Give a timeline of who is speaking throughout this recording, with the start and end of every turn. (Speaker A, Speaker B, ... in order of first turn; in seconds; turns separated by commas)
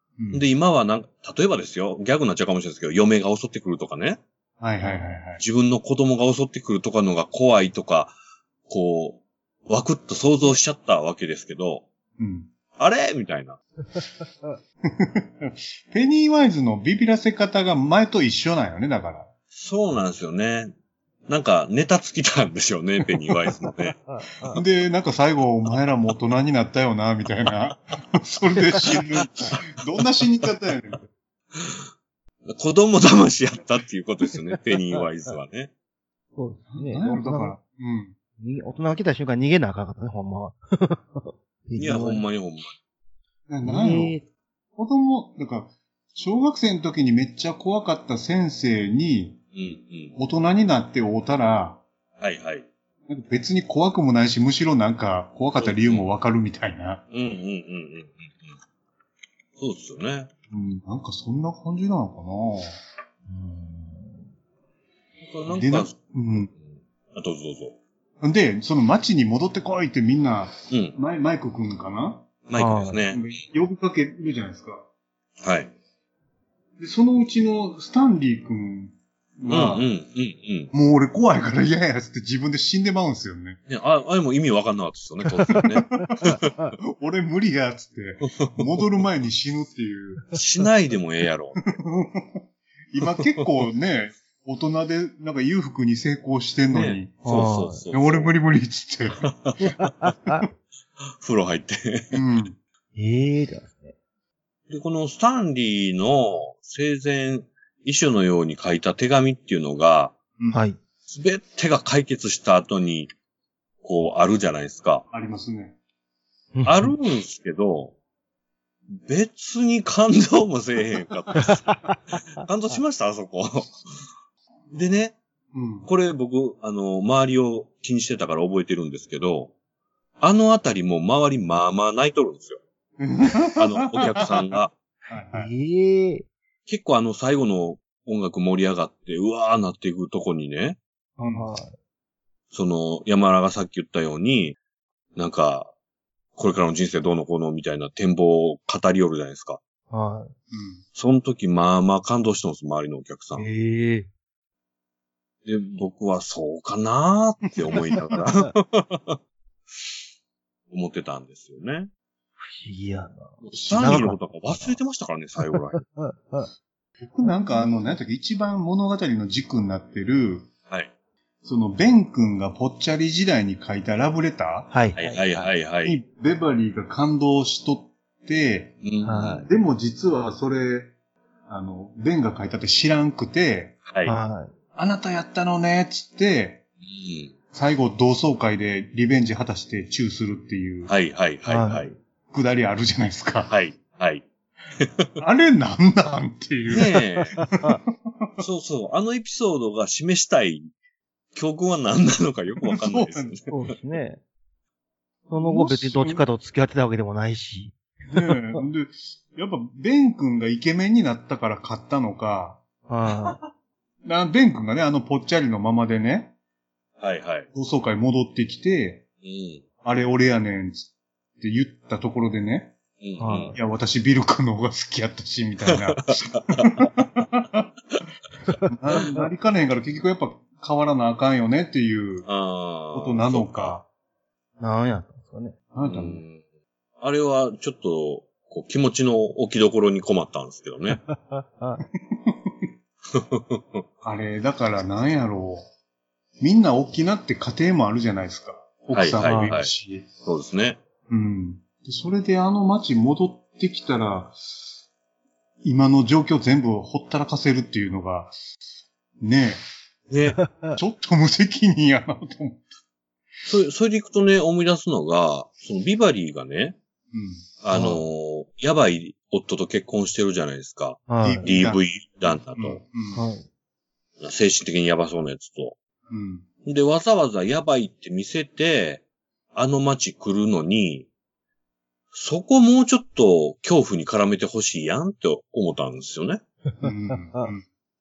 Speaker A: 0.2-0.5, Speaker B: 0.3-4.2, Speaker A: 4.6-5.4, Speaker B: 5.4-8.2, Speaker B: 8.7-11.9, Speaker A: 12.2-12.5, Speaker B: 12.8-13.6, Speaker C: 13.9-14.6, Speaker A: 14.9-19.3, Speaker B: 19.5-20.7, Speaker B: 21.3-24.0, Speaker C: 24.1-24.6, Speaker A: 24.5-31.1, Speaker B: 28.8-29.6, Speaker B: 31.5-31.9, Speaker B: 32.5-35.7, Speaker C: 36.4-37.6, Speaker A: 36.7-38.1, Speaker C: 38.4-42.2, Speaker B: 41.8-42.7, Speaker A: 43.5-44.2, Speaker C: 43.6-44.2, Speaker A: 44.8-49.4, Speaker B: 49.5-50.1, Speaker A: 50.2-51.8, Speaker B: 52.2-52.7, Speaker A: 53.1-57.0, Speaker B: 55.6-56.1, Speaker B: 57.1-58.5, Speaker B: 59.6-60.3, Speaker A: 60.5-62.8, Speaker C: 63.3-64.3, Speaker B: 65.2-66.0, Speaker A: 65.5-66.5, Speaker B: 66.5-67.8, Speaker A: 68.2-72.3, Speaker B: 70.7-71.0, Speaker B: 72.5-73.2, Speaker C: 72.5-73.0, Speaker A: 73.1-74.9, Speaker B: 75.4-75.7, Speaker A: 76.8-79.9, Speaker B: 79.5-80.7, Speaker A: 80.7-83.6, Speaker B: 83.7-86.6, Speaker C: 85.4-86.7, Speaker A: 85.5-90.2, Speaker B: 88.2-88.7, Speaker B: 90.3-91.6, Speaker A: 91.7-99.3, Speaker B: 96.7-98.3, Speaker C: 97.2-97.8, Speaker B: 99.2-99.7, Speaker C: 99.6-100.5, Speaker B: 101.2-102.2, Speaker A: 102.1-102.6, Speaker C: 103.0-103.9, Speaker B: 104.7-110.2, Speaker C: 110.5-110.8, Speaker B: 111.1-113.1, Speaker B: 113.8-115.0, Speaker A: 115.1-115.8, Speaker C: 116.5-116.9, Speaker B: 116.7-118.0, Speaker B: 118.9-121.7, Speaker C: 121.4-122.0, Speaker B: 122.4-123.8, Speaker B: 124.7-125.2, Speaker A: 125.5-125.9, Speaker B: 125.8-129.5, Speaker B: 130.2-132.6, Speaker A: 133.0-134.6, Speaker B: 133.6-134.7, Speaker A: 135.1-135.5, Speaker C: 135.3-136.3, Speaker B: 136.7-140.8, Speaker A: 141.2-141.5, Speaker C: 141.3-141.7, Speaker B: 142.5-144.6, Speaker B: 145.2-145.7, Speaker B: 146.4-149.6, Speaker C: 149.9-150.3, Speaker A: 150.5-150.8, Speaker B: 150.9-153.5, Speaker C: 153.4-154.1, Speaker B: 155.4-159.2, Speaker B: 160.7-161.9, Speaker C: 162.4-164.8, Speaker B: 163.4-165.8, Speaker C: 165.5-166.5, Speaker A: 167.0-170.5, Speaker A: 171.4-174.7, Speaker C: 174.7-175.5, Speaker B: 175.0-176.0, Speaker A: 175.8-178.8, Speaker B: 178.8-179.5, Speaker C: 179.1-179.5, Speaker A: 179.5-180.9, Speaker A: 181.5-183.8, Speaker B: 183.9-184.2, Speaker C: 184.1-184.5, Speaker A: 184.8-186.6, Speaker B: 186.8-187.3, Speaker A: 187.5-190.9, Speaker B: 190.9-192.0, Speaker C: 191.5-191.9, Speaker A: 192.3-193.5, Speaker B: 193.5-194.2, Speaker B: 194.8-195.1, Speaker A: 195.2-197.0, Speaker B: 196.7-197.4, Speaker C: 197.4-197.8, Speaker A: 197.5-198.4, Speaker B: 198.4-200.7, Speaker B: 201.3-203.6, Speaker A: 202.7-203.3, Speaker C: 203.5-204.2, Speaker A: 205.3-206.2, Speaker C: 205.3-208.6, Speaker A: 208.1-212.6, Speaker C: 212.9-213.4, Speaker A: 214.1-216.3, Speaker B: 217.0-217.5, Speaker A: 217.5-219.1, Speaker B: 219.2-219.6, Speaker A: 219.8-222.8, Speaker B: 223.0-223.6, Speaker C: 223.2-223.6, Speaker A: 223.6-227.7, Speaker B: 225.7-226.9, Speaker C: 228.5-229.2, Speaker A: 228.7-232.3, Speaker B: 232.3-233.8, Speaker A: 232.9-233.8, Speaker C: 234.6-235.6, Speaker A: 235.7-236.2, Speaker B: 235.8-236.4, Speaker B: 237.0-241.0, Speaker C: 240.9-241.8, Speaker A: 242.0-242.7, Speaker B: 243.1-243.8, Speaker A: 244.0-245.7, Speaker A: 246.4-250.1, Speaker B: 248.9-249.7, Speaker C: 249.2-249.6, Speaker B: 250.2-250.8, Speaker A: 251.1-254.4, Speaker A: 255.6-258.4, Speaker A: 259.2-259.6, Speaker B: 260.1-260.4, Speaker C: 260.4-260.8, Speaker A: 260.7-262.6, Speaker B: 263.4-266.8, Speaker A: 267.1-268.0, Speaker B: 267.6-272.8, Speaker C: 271.1-271.5, Speaker A: 271.2-271.8, Speaker A: 272.5-273.2, Speaker C: 273.1-273.5, Speaker B: 274.2-275.8, Speaker A: 276.1-276.4, Speaker B: 276.6-281.1, Speaker B: 282.1-286.4, Speaker C: 286.8-287.5, Speaker A: 286.8-287.6